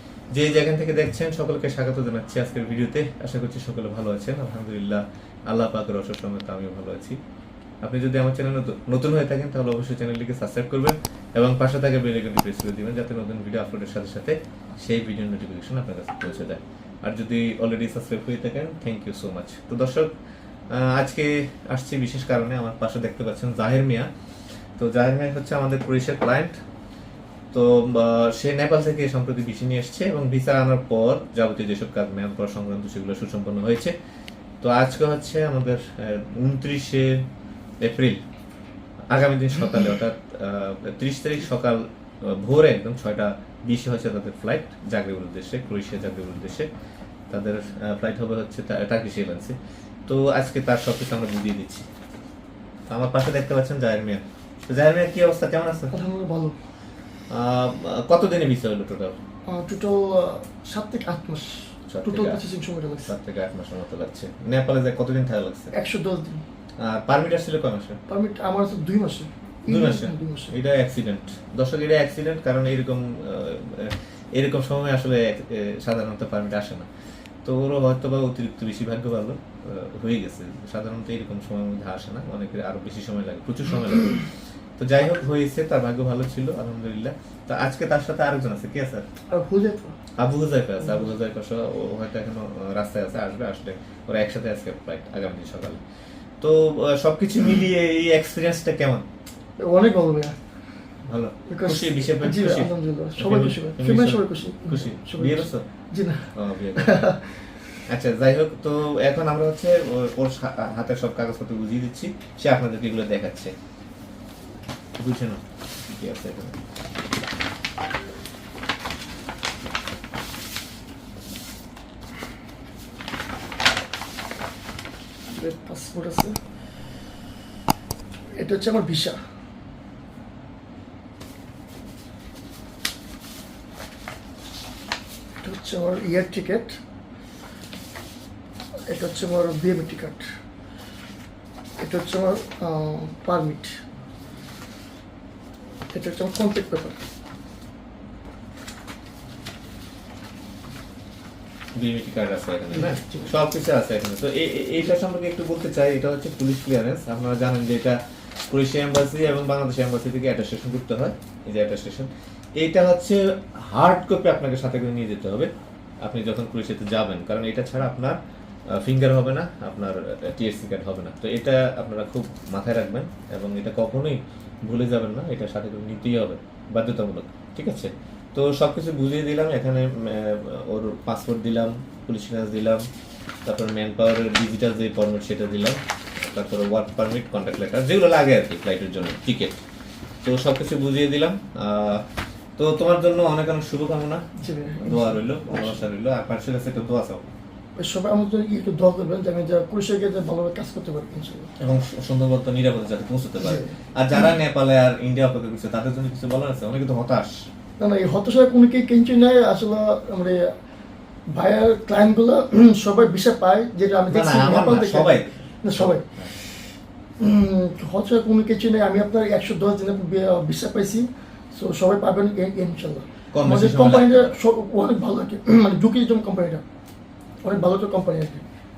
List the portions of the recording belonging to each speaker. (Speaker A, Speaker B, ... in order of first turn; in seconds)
Speaker A: 0.3-7.2, 7.8-20.1, 20.7-24.1, 24.8-26.5, 27.5-34.0, 34.6-37.2, 37.8-38.2, 39.1-46.7, 47.3-49.6, 50.1-51.9, 52.9-55.9, 57.3-59.2, 61.9-62.4, 63.1-65.7, 66.8-68.0, 69.7-76.9, 77.4-84.2, 84.8-89.0, 90.2-95.8, 96.4-99.0, 101.1-105.6, 106.3-107.1, 107.9-113.5, 115.0-116.6, 151.8-158.0, 158.5-165.5, 166.0-168.2, 168.8-182.8, 183.5-189.6, 190.2-192.1, 192.6-194.2, 194.8-197.3, 201.6-207.5, 214.1-215.3, 223.3-224.3
Speaker B: 55.9-56.5, 59.5-63.1, 65.7-66.4, 68.1-70.5, 89.3-90.0, 99.6-100.4, 101.5-107.6, 125.3-126.4, 128.4-129.2, 135.4-136.8, 138.9-140.2, 141.8-143.8, 145.9-147.0, 152.8-153.2, 194.4-195.8, 197.8-201.5, 203.4-203.7, 207.8-210.5, 211.3-216.6, 217.2-226.6, 227.4-228.5